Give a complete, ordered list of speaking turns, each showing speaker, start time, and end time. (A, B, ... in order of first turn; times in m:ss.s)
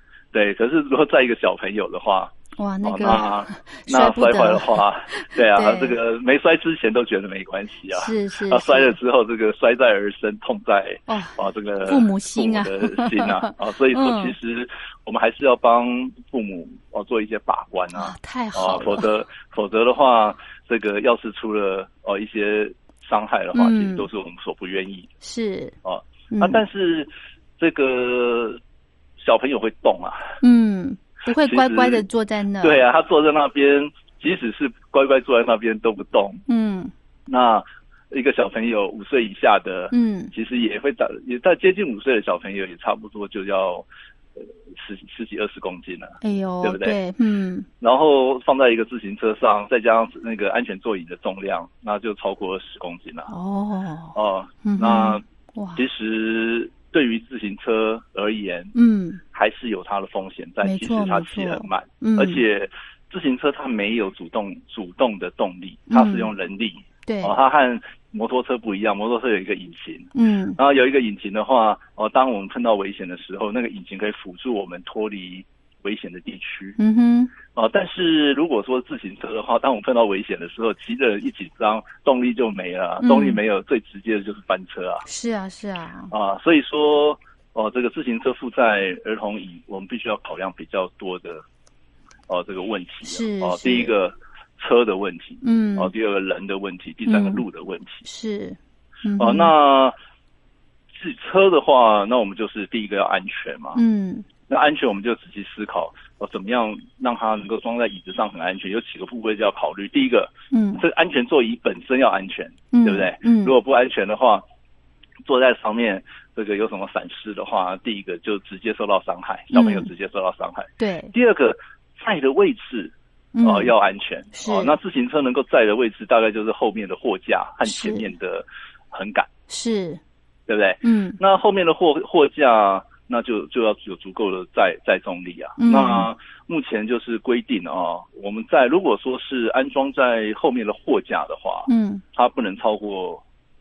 0:00.3-0:25.1 A
0:02.6-0:06.0 B
0:07.9-0:09.0 B
0:11.1-0:11.3 B
0:11.9-0:14.4 B
0:17.9-0:19.1 B
0:23.6-0:24.1 B
0:25.2-0:25.8 B
0:25.8-0:28.6 A
0:26.3-0:26.6 B
0:29.2-0:30.4 A
0:30.4-0:32.8 B
0:31.4-0:32.0 A
0:32.6-0:36.4 A
0:36.5-0:36.9 B
0:37.3-0:43.8 A
0:39.9-0:40.3 B
0:44.4-0:47.0 A
0:46.2-0:47.7 B
0:47.8-0:53.3 A
0:53.3-0:55.8 B
0:54.1-0:55.2 A
0:55.8-0:58.7 A
0:58.8-0:59.2 B
0:59.3-1:16.8 A
1:00.6-1:02.4 B
1:05.9-1:06.3 B
1:07.1-1:07.3 B
1:10.2-1:10.6 B
1:16.8-1:17.3 B
1:17.5-1:25.0 A
1:23.0-1:23.4 B
1:25.1-1:26.1 B
1:26.1-1:31.4 A
1:32.3-1:38.0 A
1:33.1-1:33.9 B
1:35.4-1:35.9 B
1:37.1-1:37.4 B
1:38.0-1:39.5 B
1:39.2-1:40.0 A
1:40.9-1:43.8 A
1:43.8-1:44.2 B
1:44.5-1:54.4 A
1:50.5-1:50.8 B
1:52.7-1:53.5 B
1:55.2-2:09.3 A
1:59.5-1:59.9 B
2:00.8-2:01.1 B
2:03.4-2:03.7 B
2:04.4-2:04.8 B
2:07.6-2:08.1 B
2:09.5-2:10.0 B
2:10.5-2:23.2 A
2:10.8-2:11.2 B
2:15.6-2:16.1 B
2:21.7-2:22.0 B